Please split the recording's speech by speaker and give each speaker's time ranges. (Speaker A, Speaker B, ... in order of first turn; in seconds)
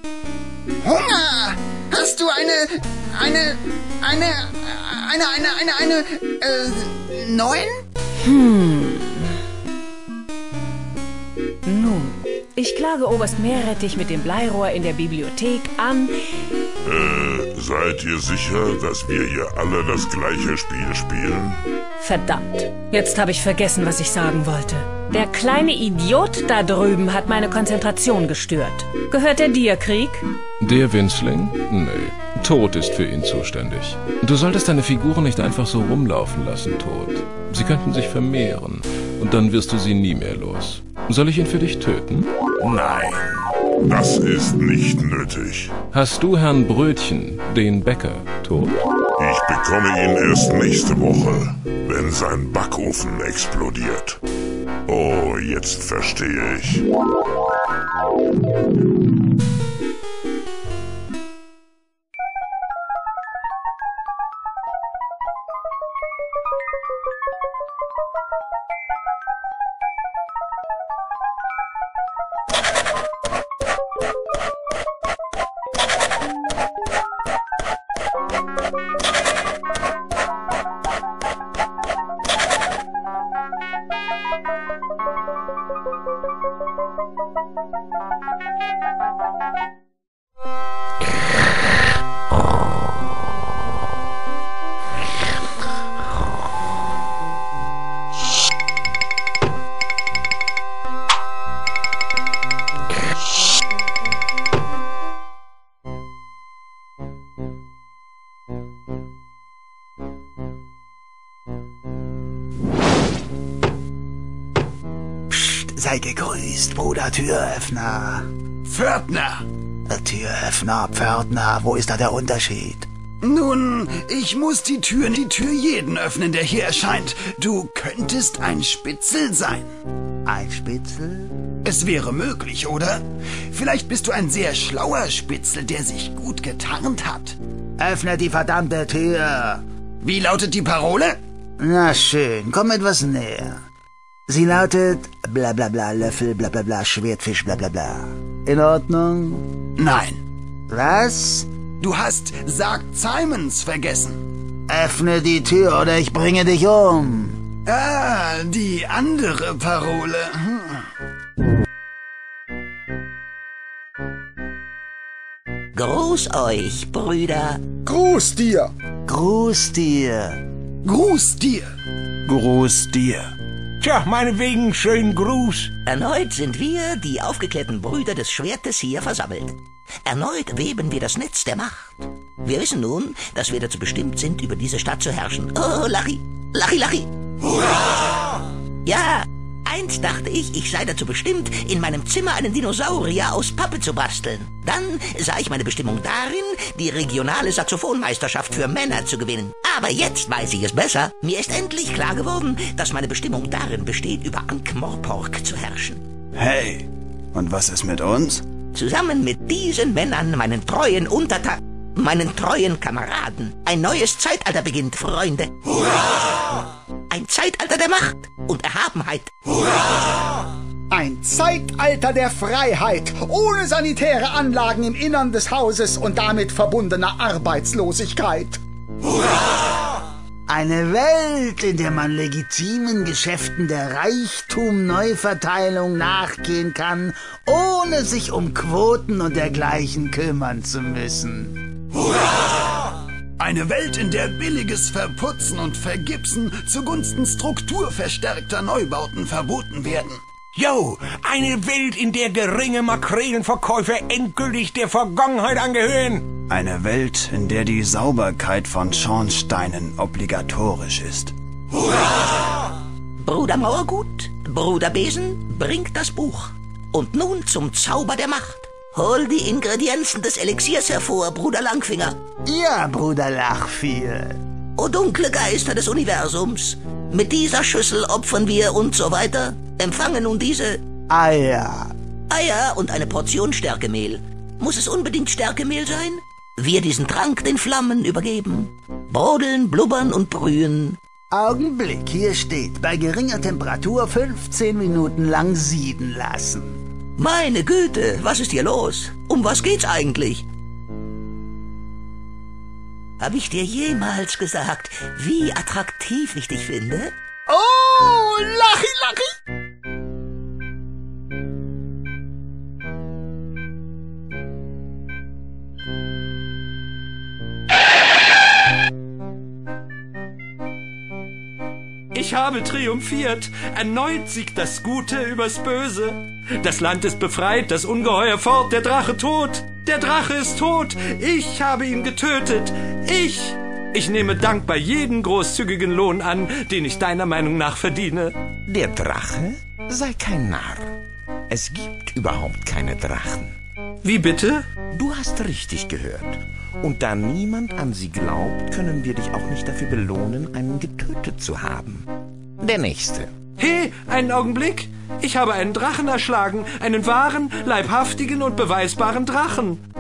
Speaker A: 0.8-7.8, 118.7-119.5, 123.2-129.7, 131.6-137.4, 140.0-141.2, 149.8-150.2, 151.8-154.2, 157.7-160.8, 170.8-171.7, 172.3-173.3, 206.4-208.4, 243.4-250.2, 256.5-261.3
Speaker B: 8.2-9.3, 11.7-16.1, 22.0-30.3
Speaker C: 16.9-21.6, 42.6-45.8, 49.2-54.2, 54.9-56.9
Speaker D: 30.6-42.3, 45.9-48.8
Speaker E: 115.3-118.3, 119.9-122.9, 130.3-131.3, 137.8-139.6, 141.6-143.6, 144.3-149.5, 150.7-151.5, 154.7-157.4, 169.1-170.4, 230.5-241.6, 272.5-274.4, 281.1-281.9, 291.3-296.8
Speaker F: 165.8-167.6, 175.8-187.1, 188.8-206.0, 208.7-215.9, 217.1-219.3, 263.2-272.1, 274.8-280.8, 282.3-291.0, 297.2-300.4, 303.2-307.1
Speaker G: 167.9-168.7, 220.9-228.6, 307.5-308.9
Speaker H: 173.8-175.8, 250.6-256.3
Speaker I: 322.1-338.3, 344.0-344.6, 353.6-359.8
Speaker J: 338.7-340.9, 341.5-343.6, 344.9-352.1, 352.6-353.3